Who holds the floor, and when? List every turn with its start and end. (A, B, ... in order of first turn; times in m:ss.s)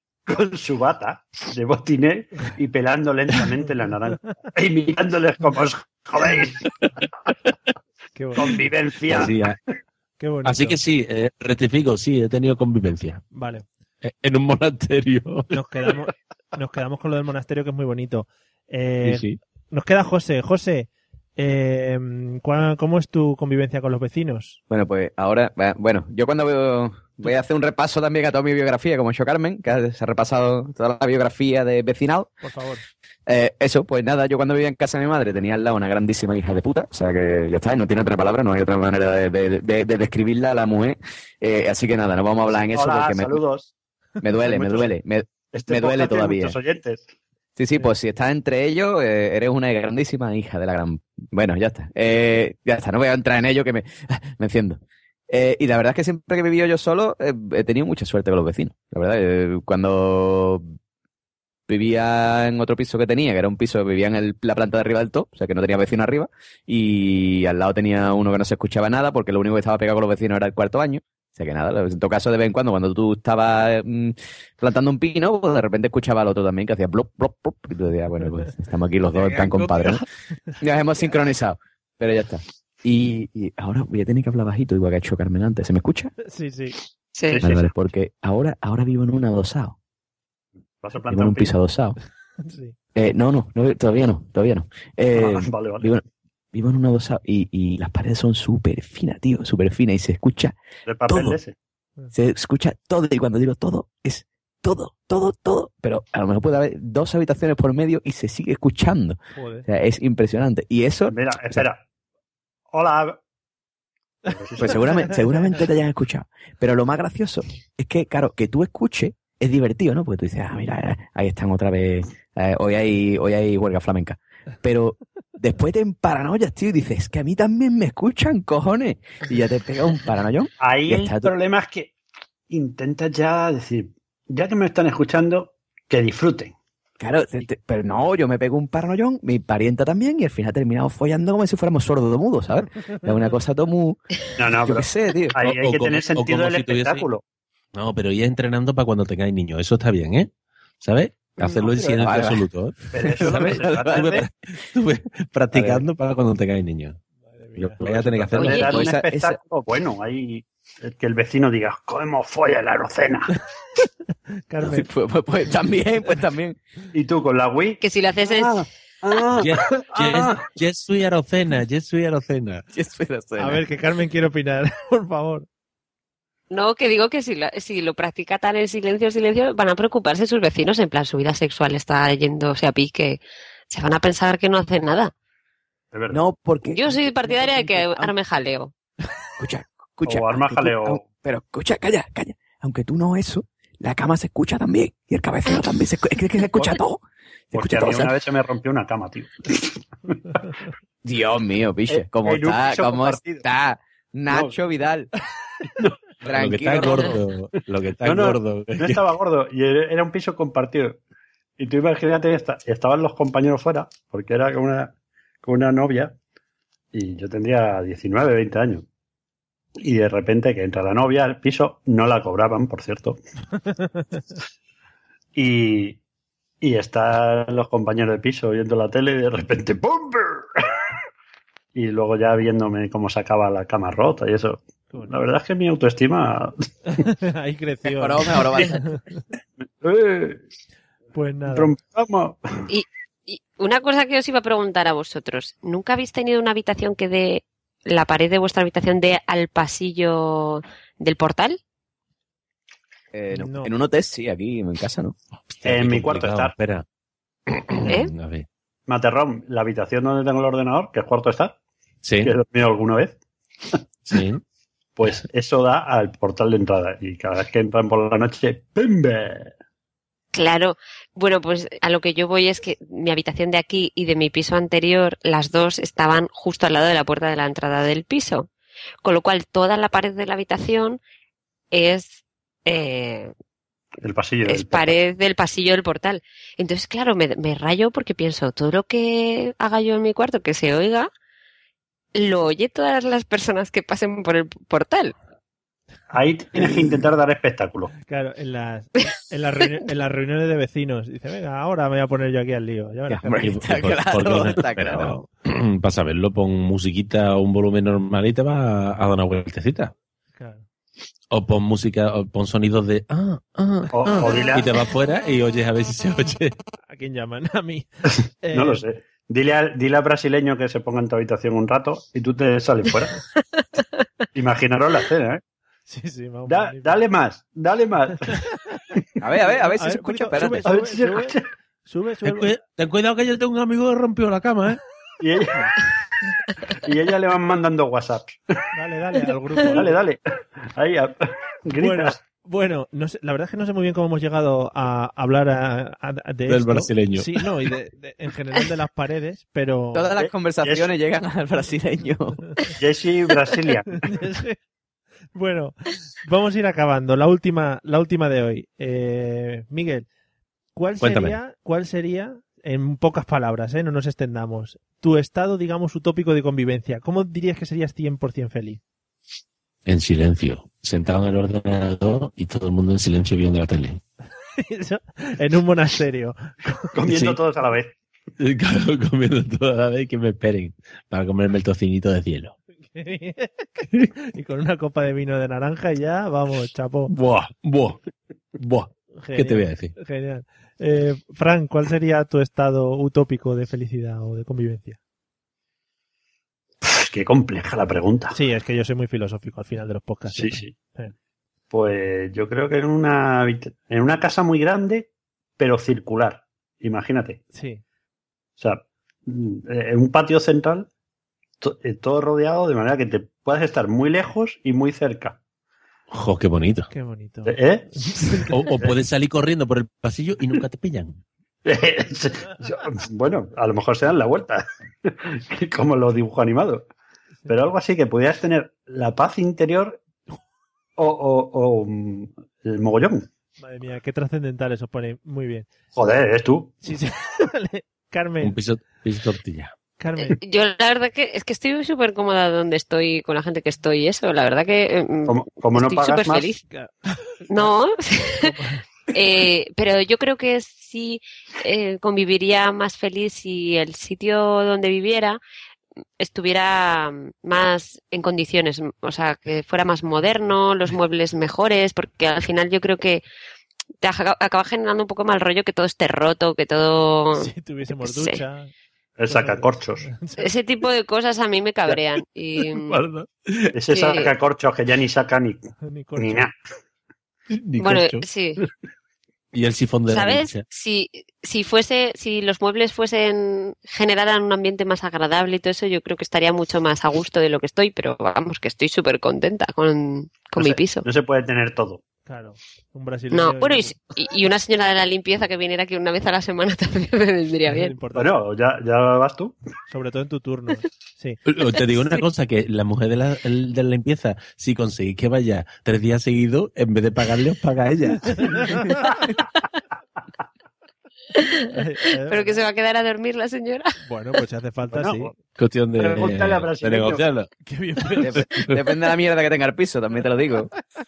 0:00.3-0:06.6 A
0:08.2-0:08.5 B
0:08.4-0:09.3 A
0:09.1-0:09.6 C
0:10.2-0:10.8 B
0:10.4-0:13.2 C
0:13.3-0:13.7 B
0:14.0-0:15.5 C
0:15.5-0:24.6 B
0:19.0-0:19.4 C
0:24.7-0:32.3 D
0:32.4-0:32.8 B
0:33.3-0:43.4 D
0:42.7-0:43.7 A
0:44.2-0:46.6 D
0:44.4-0:44.9 A
0:45.5-0:47.1 A
0:47.6-1:00.7 D
1:01.7-1:20.0 D
1:20.6-1:26.1 D
1:26.2-1:26.8 B
1:27.2-1:27.4 E
1:27.3-1:27.7 A
1:27.4-1:29.8 D
1:30.8-1:31.5 A
1:31.1-1:32.0 D
1:32.4-1:32.8 B
1:33.0-1:36.0 D
1:35.1-1:35.9 A
1:36.5-1:40.6 D
1:40.9-1:41.6 A
1:41.1-1:41.4 D
1:42.1-1:51.6 D
1:49.4-1:49.7 B
1:51.1-1:51.8 A
1:52.7-1:53.2 A
1:54.3-1:55.2 A
1:54.6-2:11.3 D
2:10.6-2:11.9 A
2:12.5-2:16.5 A
2:17.0-2:24.0 D
2:24.4-2:27.2 A
2:24.6-2:25.4 D
2:25.4-2:27.1 C
2:27.8-2:37.0 C
2:31.4-2:32.4 D
2:32.9-2:34.3 A
2:33.1-2:34.2 D
2:35.5-2:35.8 D
2:37.3-2:37.9 B
2:37.6-2:38.7 C
2:37.9-2:43.3 A
2:38.4-2:38.8 E
2:38.4-2:39.4 D
2:44.5-2:44.9 B
2:44.6-2:46.6 D
2:46.9-2:50.4 A
2:47.8-2:48.7 E
2:49.3-2:52.6 C
2:52.7-2:53.6 D
2:53.4-2:55.5 B
2:56.5-3:05.1 E
3:05.9-3:06.2 A
3:06.1-3:08.1 D
3:06.6-3:08.7 E
3:09.4-3:17.0 D
3:10.1-3:11.1 A
3:17.5-3:18.2 D
3:17.5-3:20.4 A
3:21.0-3:25.1 D
3:21.9-3:23.4 A
3:24.3-3:24.6 A
3:26.2-3:27.2 D
3:26.2-3:29.1 C
3:28.0-3:31.0 A
3:31.6-3:36.2 A
3:36.9-3:38.9 A
3:39.8-3:43.2 A
3:43.7-3:44.2 B
3:45.4-3:46.0 A
3:46.6-3:50.8 A
3:51.8-3:56.7 A
3:54.9-3:55.2 B
3:56.9-3:59.2 B
3:57.9-3:58.8 D
3:59.8-4:00.4 A
4:01.1-4:01.7 B
4:01.5-4:02.6 A
4:02.7-4:11.6 E
4:13.1-4:15.2 D
4:13.3-4:13.7 B
4:15.6-4:16.8 C
4:15.6-4:16.5 A
4:17.5-4:18.5 C
4:17.9-4:18.1 E
4:18.9-4:21.6 A
4:22.0-4:22.3 C
4:22.2-4:23.2 A
4:24.1-4:24.4 C
4:25.0-4:29.5 A
4:30.3-4:38.5 E
4:39.0-4:41.0 E
4:41.7-4:43.3 E
4:44.0-4:45.0 A
4:44.5-4:51.1 E
4:52.2-4:55.1 E
4:56.1-4:57.9 A
4:58.0-5:03.5 B
5:03.1-5:05.2 D
5:03.4-5:09.9 C
5:10.4-5:10.6 B
5:11.3-5:16.6 C
5:13.9-5:14.7 A
5:16.9-5:17.9 B
5:18.4-5:18.8 B
5:18.5-5:23.2 A
5:24.3-5:25.4 A
5:25.9-5:27.0 B
5:26.5-5:28.4 A
5:28.3-5:28.8 B
5:29.2-5:30.7 D
5:29.5-5:32.6 B
5:30.6-5:31.5 A
5:32.2-5:34.8 C
5:35.2-5:35.7 A
5:36.8-5:38.4 A
5:38.7-5:40.0 B
5:39.6-5:40.2 A
5:40.8-5:42.2 A
5:41.8-5:50.1 B
5:46.5-5:47.4 C
5:49.9-5:52.4 D
5:50.2-5:50.9 A
5:52.8-5:54.0 A
5:54.0-5:54.6 B
5:55.4-6:00.1 B
6:00.8-6:08.8 B
6:01.0-6:01.4 C
6:09.9-6:14.0 C
6:14.6-6:16.9 B
6:17.0-6:17.9 A
6:17.1-6:17.4 C
6:18.4-6:22.6 C
6:22.9-6:27.1 B
6:27.1-6:28.0 C
6:28.6-6:29.9 C
6:29.2-6:35.0 B
6:36.8-6:38.4 A
6:38.3-6:41.1 B
6:40.3-6:40.8 A
6:41.7-6:47.4 A
6:47.5-6:47.8 B
6:48.6-6:50.9 A
6:51.6-6:55.4 A
6:56.1-6:56.9 C
6:56.9-6:58.6 B
6:57.5-6:58.9 A
6:58.5-7:01.2 C
7:01.6-7:06.9 A
7:07.5-7:10.0 A
7:11.0-7:13.2 A
7:13.6-7:15.7 B
7:16.0-7:16.8 A
7:16.8-7:18.6 B
7:18.4-7:19.7 C
7:20.0-7:20.4 B
7:20.2-7:26.6 E
7:25.3-7:26.5 A
7:26.7-7:27.7 B
7:27.5-7:28.5 E
7:28.3-7:28.8 B
7:29.1-7:35.4 E
7:36.2-7:43.2 E
7:44.0-7:47.5 E
7:47.4-7:48.7 B
7:48.0-7:48.4 E
7:49.2-7:50.0 A
7:49.3-7:50.5 B
7:50.4-7:53.0 E
7:52.7-7:53.7 C
7:53.7-7:55.6 A
7:53.9-7:54.3 E
7:55.8-7:56.5 B
7:56.2-7:56.5 A
7:57.5-7:58.3 C
7:57.8-7:58.6 E
7:59.5-8:00.6 C
8:00.1-8:11.1 E
8:10.6-8:12.0 A
8:12.3-8:13.9 B
8:13.3-8:18.0 E
8:17.7-8:18.4 B
8:18.2-8:19.6 A
8:19.9-8:21.4 B
8:21.5-8:29.1 C
8:28.3-8:29.3 B
8:31.4-8:31.6 E
8:31.7-8:32.6 B
8:32.3-8:33.9 E
8:34.0-8:35.3 B
8:34.9-8:35.3 A
8:35.6-8:37.5 C
8:36.0-8:37.3 A
8:37.6-8:38.5 B
8:38.1-8:38.8 C
8:38.2-8:40.7 D